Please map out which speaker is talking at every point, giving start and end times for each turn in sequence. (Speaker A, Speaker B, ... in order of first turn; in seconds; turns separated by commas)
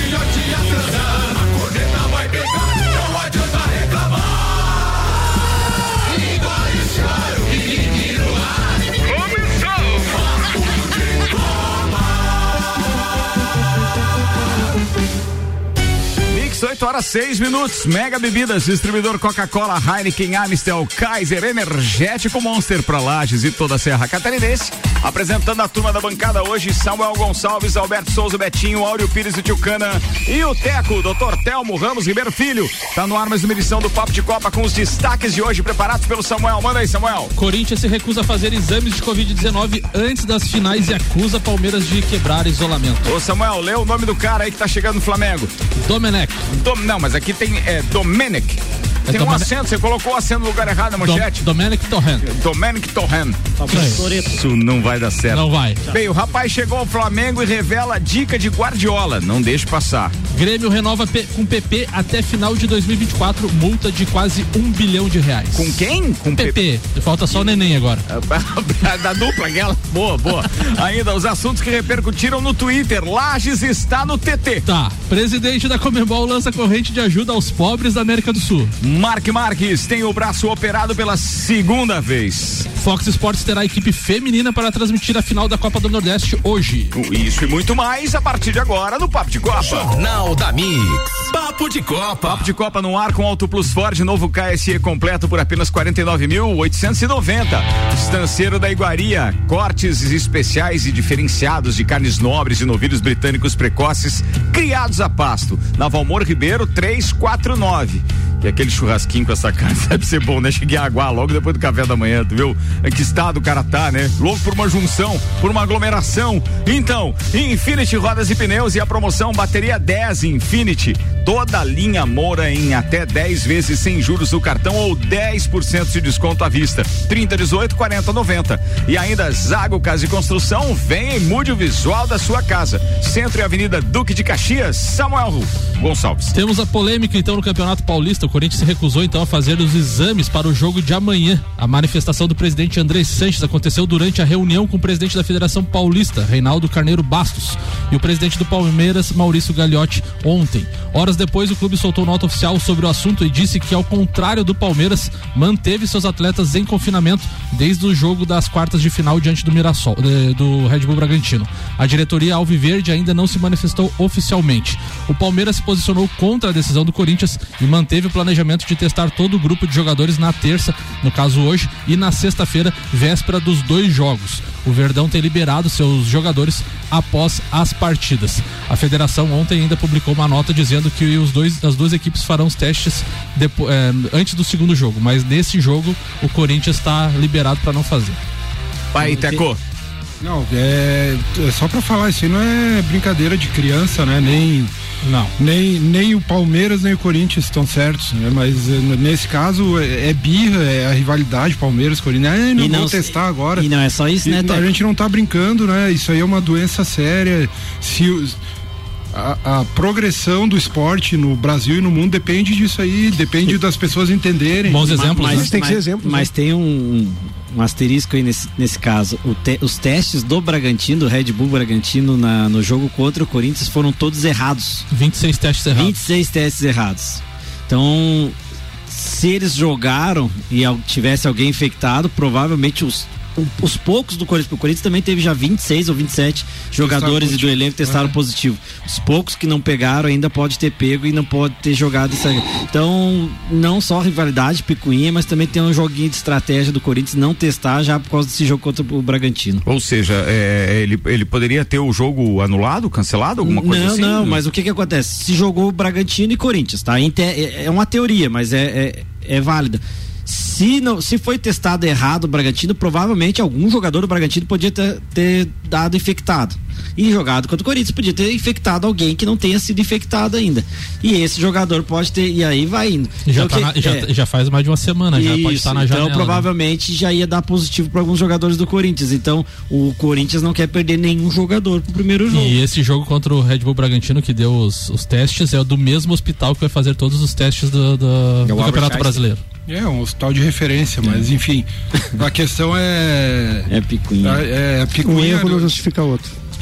Speaker A: 16.3-37.3, Speaker B: 37.4-43.1, Speaker A: 43.0-45.5, Speaker B: 45.8-46.4, Speaker A: 46.5-51.4, Speaker B: 49.1-49.5, Speaker B: 51.0-52.3, Speaker A: 52.2-60.1, Speaker C: 53.6-54.4, Speaker B: 53.7-54.0, Speaker B: 55.3-55.8, Speaker B: 60.3-65.8, Speaker A: 65.5-66.6, Speaker B: 66.4-68.0, Speaker A: 67.3-74.6, Speaker B: 74.6-78.7, Speaker A: 78.8-82.7, Speaker B: 82.8-86.9, Speaker A: 86.9-89.9, Speaker D: 89.6-92.5, Speaker A: 92.2-136.3, Speaker B: 136.3-188.2, Speaker A: 188.9-189.6, Speaker C: 189.0-189.4, Speaker E: 190.2-194.7, Speaker B: 195.0-195.3, Speaker E: 195.4-203.7, Speaker C: 202.6-204.7, Speaker E: 204.2-208.4, Speaker E: 209.1-215.0, Speaker B: 214.7-215.5, Speaker C: 214.8-224.8, Speaker F: 215.2-216.3, Speaker B: 224.9-226.0, Speaker C: 225.7-228.3, Speaker C: 228.9-249.6, Speaker E: 236.8-238.1, Speaker A: 249.6-254.4, Speaker C: 253.4-274.1, Speaker B: 273.2-276.5, Speaker C: 275.1-282.6, Speaker B: 282.3-289.4, Speaker C: 288.4-289.2, Speaker E: 289.7-293.7, Speaker C: 293.7-294.4, Speaker E: 294.2-295.8, Speaker F: 295.0-296.3